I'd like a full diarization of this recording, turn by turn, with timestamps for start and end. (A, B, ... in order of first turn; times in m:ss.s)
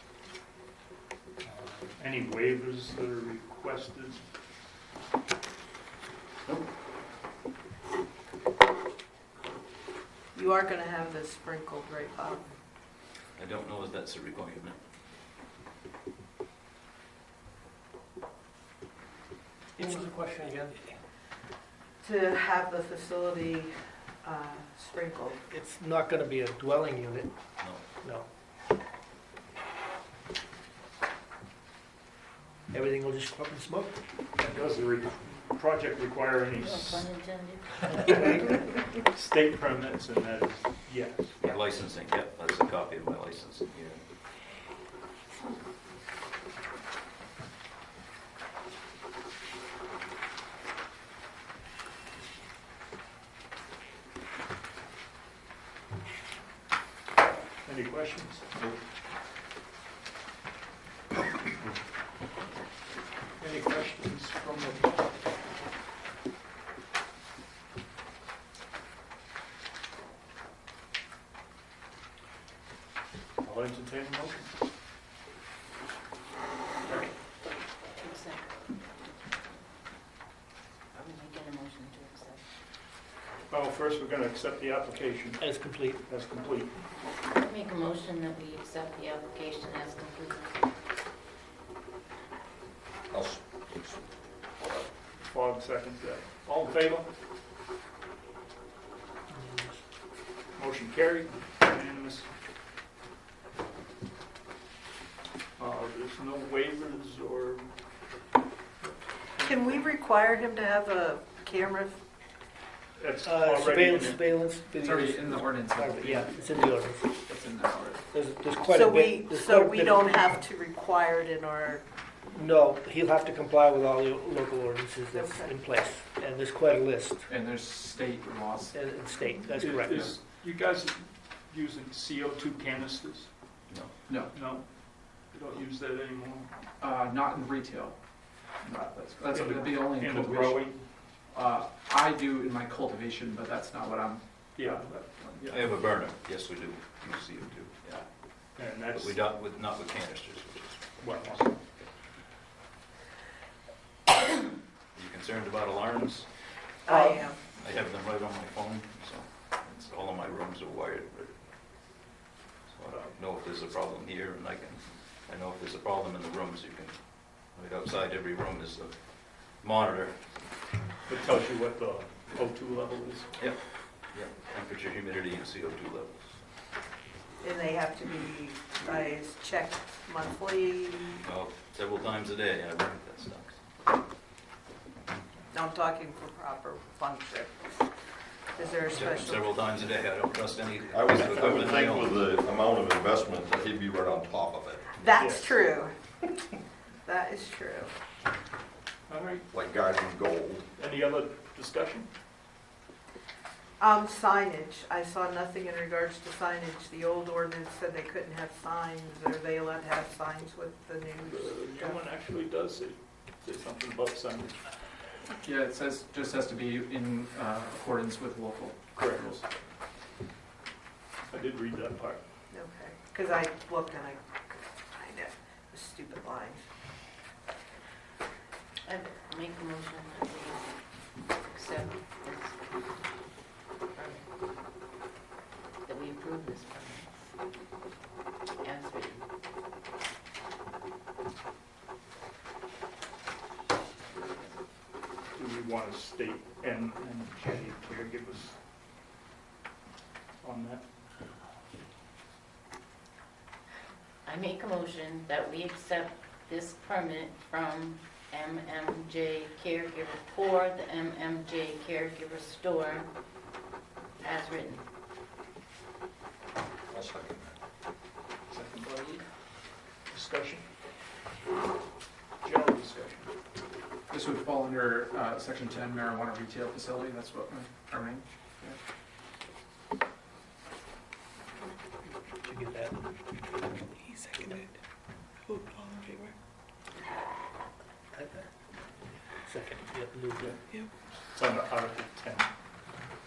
0:02.0-0:04.2 A
0:10.3-0:12.4 B
0:13.4-0:14.8 C
0:19.8-0:20.9 D
0:22.0-0:25.4 B
0:25.5-0:27.3 D
0:28.0-0:28.3 D
0:32.7-0:34.0 D
0:34.4-0:37.2 A
0:36.6-0:38.3 E
0:39.0-0:41.4 A
0:41.4-0:44.0 C
0:57.6-0:58.5 A
1:03.4-1:05.0 A
1:13.4-1:14.5 A
1:18.0-1:18.7 E
1:20.9-1:22.4 E
1:23.5-1:26.8 A
1:25.4-1:26.0 D
1:27.3-1:30.6 E
1:33.1-1:34.0 F
1:35.2-1:37.0 A
1:39.3-1:39.8 D
1:40.6-1:42.2 A
1:45.6-1:47.7 A
1:48.8-1:49.9 A
1:49.4-1:51.9 B
1:53.0-1:54.2 A
1:53.2-1:57.1 D
1:54.8-1:58.0 G
1:58.1-2:00.4 D
1:58.6-2:01.8 B
2:02.3-2:07.2 D
2:05.1-2:05.6 B
2:07.3-2:08.8 G
2:08.7-2:10.1 D
2:09.6-2:13.3 A
2:14.1-2:14.3 G
2:14.3-2:16.5 A
2:16.8-2:20.7 G
2:19.3-2:20.8 A
2:21.3-2:24.7 G
2:24.6-2:25.7 A
2:25.4-2:28.1 C
2:28.6-2:29.2 A
2:28.8-2:31.4 C
2:31.0-2:31.6 A
2:34.9-2:36.3 C
2:36.8-2:37.4 B
2:37.6-2:41.4 C
2:42.7-2:50.2 C
2:51.1-2:53.3 A
2:53.4-2:56.4 C
2:57.4-3:01.2 B
3:01.2-3:03.6 C
3:05.5-3:07.9 B
3:08.5-3:09.6 B
3:08.9-3:12.2 C
3:10.9-3:15.3 F
3:15.0-3:16.0 B
3:15.2-3:15.5 A
3:17.0-3:17.9 B
3:19.1-3:19.4 A
3:19.5-3:20.7 F
3:20.8-3:22.1 A
3:23.8-3:32.0 B
3:31.2-3:34.7 A
3:35.4-3:39.4 G
3:38.9-3:39.4 A
3:41.3-3:42.2 A
3:42.5-3:46.6 B
3:48.8-3:53.3 E
3:53.9-3:54.3 E
3:55.8-3:57.1 E
3:58.6-3:59.2 E
4:04.1-4:04.6 E
4:05.3-4:08.6 A
4:10.4-4:10.8 A
4:14.2-4:23.1 E
4:24.2-4:24.8 E
4:26.9-4:27.6 F
4:28.5-4:30.6 A
4:32.4-4:33.3 A
4:34.1-4:38.8 G
4:42.4-4:44.7 D
4:45.5-4:46.3 D
4:48.1-4:48.4 D
4:49.4-4:50.8 D
4:51.3-4:52.5 A